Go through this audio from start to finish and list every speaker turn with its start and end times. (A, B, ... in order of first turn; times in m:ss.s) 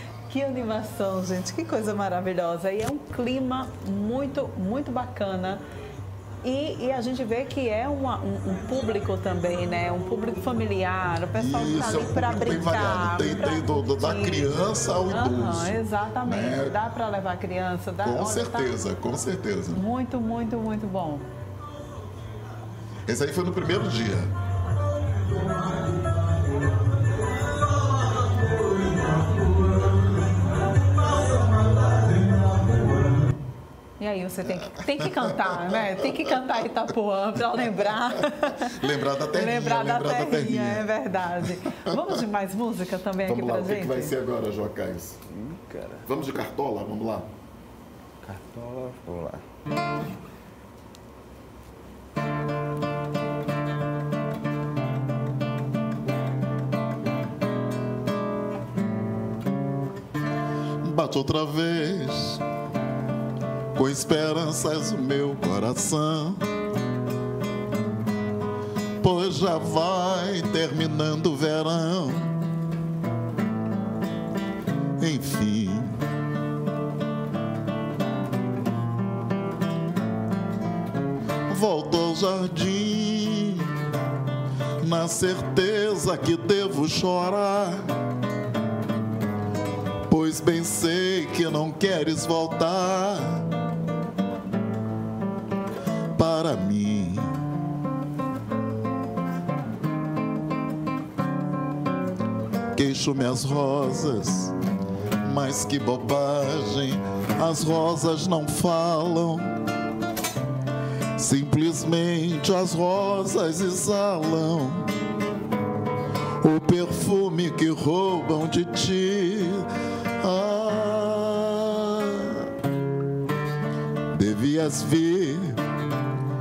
0:00.3-0:05.6 A
0:06.4-0:14.4 A
0:11.3-0:16.8 B
0:15.1-0:18.8 A
0:18.0-0:19.8 B
0:19.7-0:21.2 A
0:23.1-0:24.3 B
0:34.0-0:44.2 A
0:35.0-0:36.3 B
0:38.4-0:40.9 B
0:41.4-0:42.0 B
0:43.2-0:45.2 B
0:45.3-0:46.0 C
0:46.0-0:47.3 B
0:48.2-0:49.4 C
1:00.8-1:02.4 B
1:03.7-1:06.4 B
1:09.0-1:12.4 B
1:15.0-1:16.0 B
1:21.5-1:23.7 B
1:24.8-1:27.9 B
1:30.1-1:33.5 B
1:36.1-1:37.4 B
1:42.7-1:44.6 B
1:45.2-1:49.6 B
1:51.2-1:55.0 B
1:56.4-2:02.5 B
2:04.1-2:05.6 B